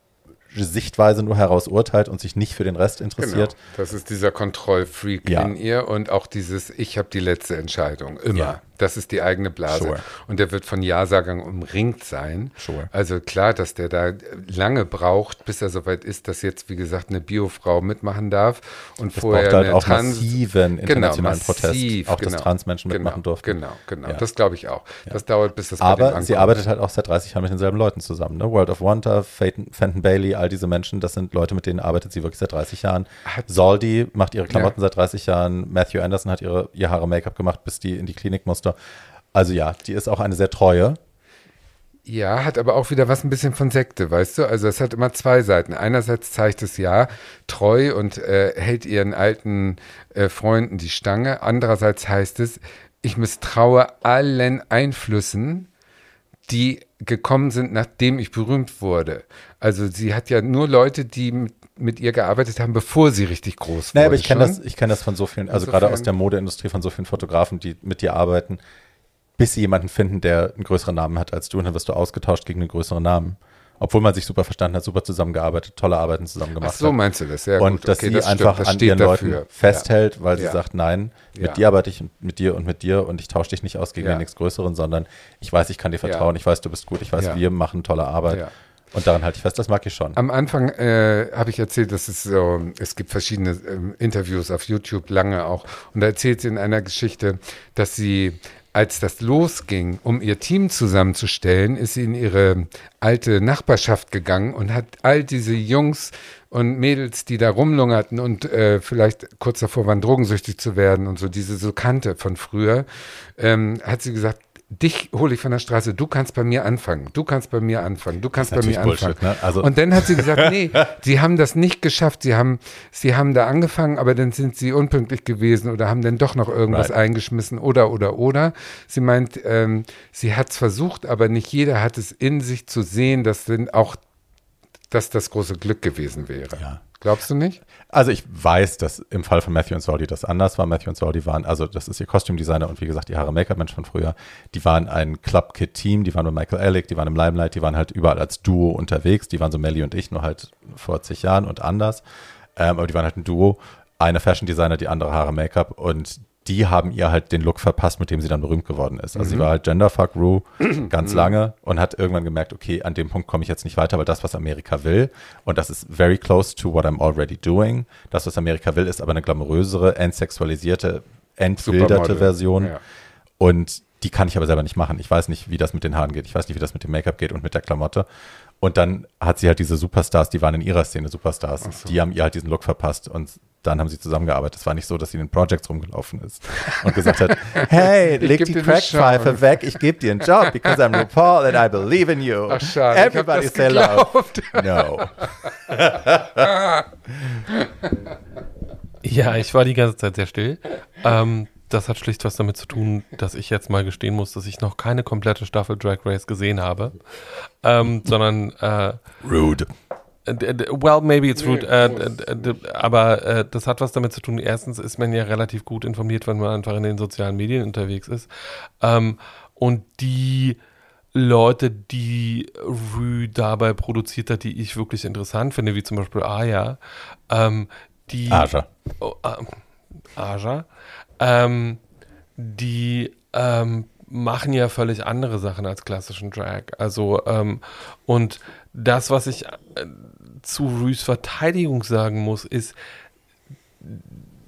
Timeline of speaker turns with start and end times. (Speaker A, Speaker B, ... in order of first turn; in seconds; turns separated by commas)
Speaker A: 0.5-3.5, Speaker B: 3.2-26.6, Speaker A: 5.2-5.5, Speaker A: 9.7-10.0, Speaker A: 12.6-12.9, Speaker A: 19.1-24.2, Speaker A: 25.8-38.7, Speaker A: 39.3-41.0, Speaker B: 42.1-55.7, Speaker B: 56.5-64.6, Speaker A: 63.9-68.6, Speaker B: 65.5-66.1, Speaker A: 69.4-77.0, Speaker B: 76.6-80.6, Speaker A: 77.6-90.2, Speaker B: 81.3-81.6, Speaker B: 84.0-84.2, Speaker B: 90.2-134.0, Speaker A: 118.4-120.5, Speaker B: 134.9-137.6, Speaker A: 137.9-152.0, Speaker A: 152.6-172.7, Speaker B: 159.2-159.5, Speaker B: 161.0-161.3, Speaker B: 171.6-172.8, Speaker A: 173.4-178.1, Speaker A: 178.6-196.5, Speaker B: 181.6-181.9, Speaker B: 186.8-189.6, Speaker B: 190.4-190.8, Speaker B: 192.5-195.5, Speaker B: 196.4-196.8, Speaker B: 197.5-197.9, Speaker C: 199.0-209.0, Speaker A: 209.2-209.7, Speaker C: 210.2-220.6, Speaker B: 211.4-212.2, Speaker C: 221.1-229.6, Speaker A: 228.3-228.7, Speaker C: 230.1-230.7, Speaker C: 231.2-231.8, Speaker C: 232.4-242.8, Speaker C: 243.8-244.2